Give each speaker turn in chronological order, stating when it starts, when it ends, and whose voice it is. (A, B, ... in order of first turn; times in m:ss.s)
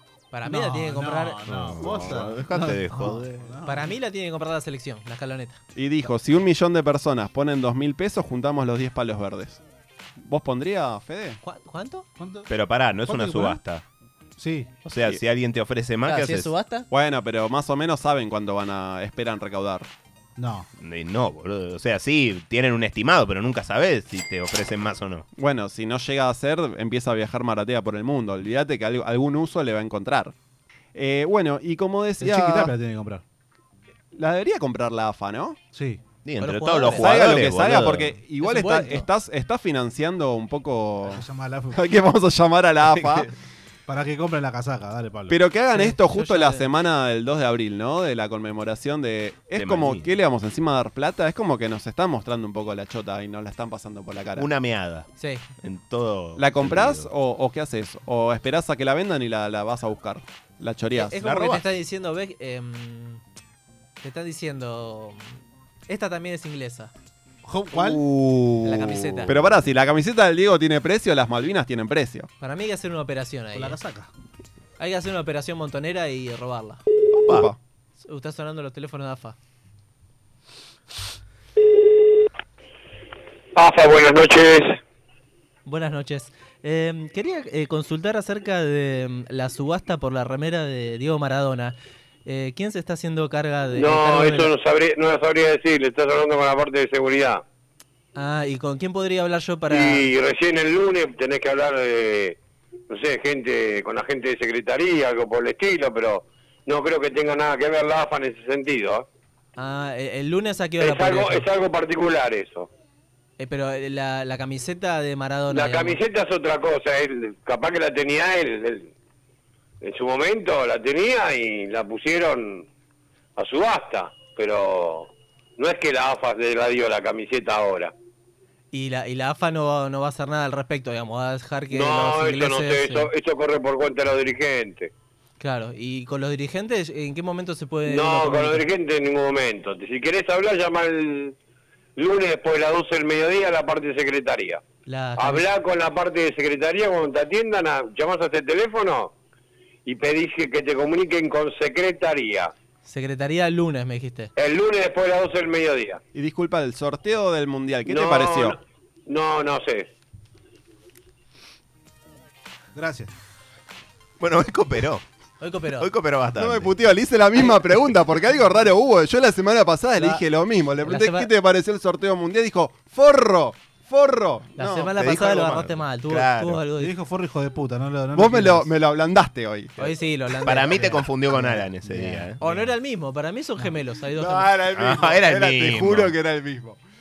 0:00.3-0:01.4 A
0:00.4-0:03.9 B
0:01.5-0:03.4 C
0:02.9-0:05.6 A
0:05.7-0:09.6 D
0:10.2-0:11.4 D
0:11.4-0:12.1 A
0:12.2-0:12.5 B
0:12.5-0:13.8 C
0:13.0-0:13.6 B
0:14.4-0:14.8 B
0:14.8-0:16.5 C
0:16.0-0:16.9 A
0:16.9-0:19.9 D
0:20.4-0:20.7 B
0:20.8-0:25.2 C
0:25.4-0:30.3 D
0:30.9-0:32.7 D
0:32.2-0:33.2 B
0:34.1-0:35.6 D
0:35.7-0:36.0 B
0:36.2-0:38.1 C
0:36.4-0:37.2 A
0:37.0-0:43.3 D
0:38.4-0:39.1 A
0:41.0-0:41.8 B
0:42.9-0:43.3 C
0:43.9-0:45.4 B
0:45.3-0:54.5 D
0:45.7-0:46.6 A
0:49.5-0:50.1 C
0:54.4-0:55.1 C
0:55.2-0:55.5 A
0:55.6-0:57.1 C
0:56.4-1:01.4 D
1:00.9-1:03.2 A
1:01.2-1:01.6 C
1:04.0-1:06.9 A
1:07.4-1:08.0 B
1:07.8-1:09.5 C
1:08.6-1:09.3 A
1:09.3-1:12.3 D
1:12.4-1:13.8 A
1:13.5-1:14.1 B
1:14.8-1:16.8 A
1:17.1-1:17.5 C
1:17.3-1:17.6 D
1:18.0-1:19.4 A
1:23.6-1:24.8 E
1:25.6-1:34.5 A
1:33.7-1:37.4 E
1:38.1-1:40.1 A
1:39.7-1:42.4 E
1:42.9-1:49.0 E
1:49.6-1:51.5 A
1:50.8-1:52.7 E
1:53.4-1:56.0 A
1:55.5-1:58.9 E
1:59.8-2:02.6 E
2:03.4-2:07.9 E
2:08.7-2:13.1 A
2:11.7-2:14.9 E
2:15.4-2:18.6 A
2:17.9-2:21.3 E
2:22.0-2:24.6 E
2:24.8-2:25.5 A
2:25.2-2:29.1 E
2:29.8-2:32.5 E
2:32.8-2:34.3 A
2:34.4-2:36.0 E
2:36.1-2:38.6 D
2:37.8-2:39.9 E
2:42.7-2:43.1 B
2:44.2-2:45.0 C
2:45.4-2:45.9 A
2:45.8-2:46.7 C
2:46.4-2:55.3 D
2:50.8-2:51.3 A
2:54.6-2:56.9 A
2:55.0-2:56.6 C
2:56.8-2:58.7 B
2:58.1-2:59.8 D
2:59.8-3:01.1 A
3:00.4-3:02.4 C
3:01.3-3:02.6 B
3:02.4-3:04.6 A
3:04.2-3:06.2 C
3:04.7-3:06.8 D